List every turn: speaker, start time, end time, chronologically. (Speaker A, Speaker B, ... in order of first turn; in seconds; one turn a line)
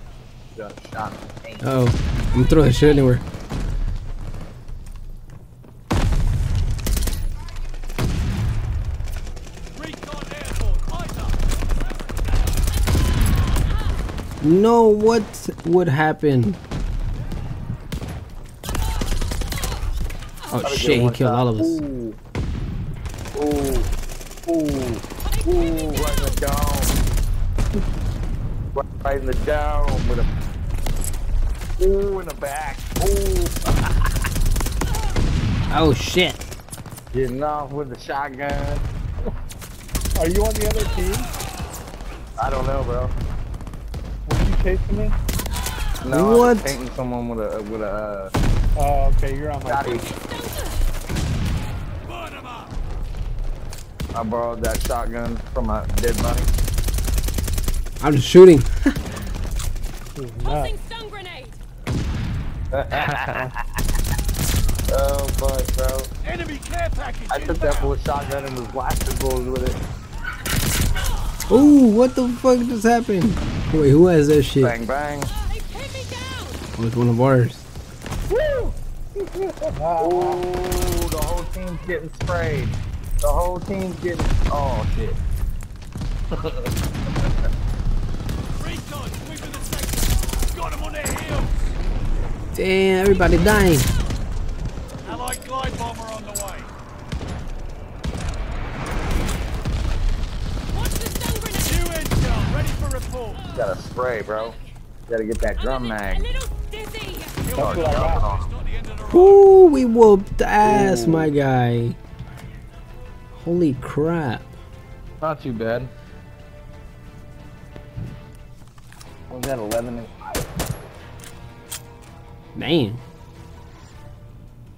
Speaker A: 0.5-1.6
Speaker B: 1.6-3.2
Speaker C: 9.7-11.4
Speaker B: 14.4-16.6
Speaker B: 20.5-21.8
Speaker A: 20.6-22.2
Speaker A: 23.3-23.9
Speaker A: 24.4-27.0
Speaker D: 25.2-26.4
Speaker A: 28.7-30.3
Speaker A: 31.8-33.9
Speaker B: 35.7-36.4
Speaker A: 37.1-38.8
Speaker E: 40.1-41.3
Speaker A: 42.4-43.1
Speaker E: 44.3-45.1
Speaker A: 46.0-48.3
Speaker B: 46.1-46.8
Speaker E: 48.8-50.0
Speaker A: 49.6-50.1
Speaker D: 49.9-50.8
Speaker C: 52.0-52.8
Speaker A: 54.1-56.5
Speaker B: 58.0-59.0
Speaker E: 60.1-60.7
Speaker D: 60.4-61.6
Speaker A: 62.7-63.5
Speaker A: 64.9-66.1
Speaker C: 66.2-67.9
Speaker A: 67.3-69.8
Speaker B: 71.5-74.7
Speaker A: 74.6-75.3
Speaker D: 75.5-76.6
Speaker B: 76.8-77.7
Speaker A: 78.3-85.2
Speaker E: 79.7-80.4
Speaker A: 86.3-86.7
Speaker C: 88.5-91.8
Speaker B: 92.5-93.9
Speaker C: 95.0-96.7
Speaker D: 100.7-102.4
Speaker C: 101.6-103.4
Speaker A: 103.5-104.5
Speaker A: 105.1-106.3
Speaker D: 105.6-107.6
Speaker C: 107.4-109.5
Speaker E: 107.6-108.3
Speaker A: 107.6-108.5
Speaker B: 109.0-112.0
Speaker A: 110.6-111.3
Speaker B: 113.3-114.5
Speaker A: 115.2-115.9
Speaker A: 119.3-120.5
Speaker B: 122.5-123.0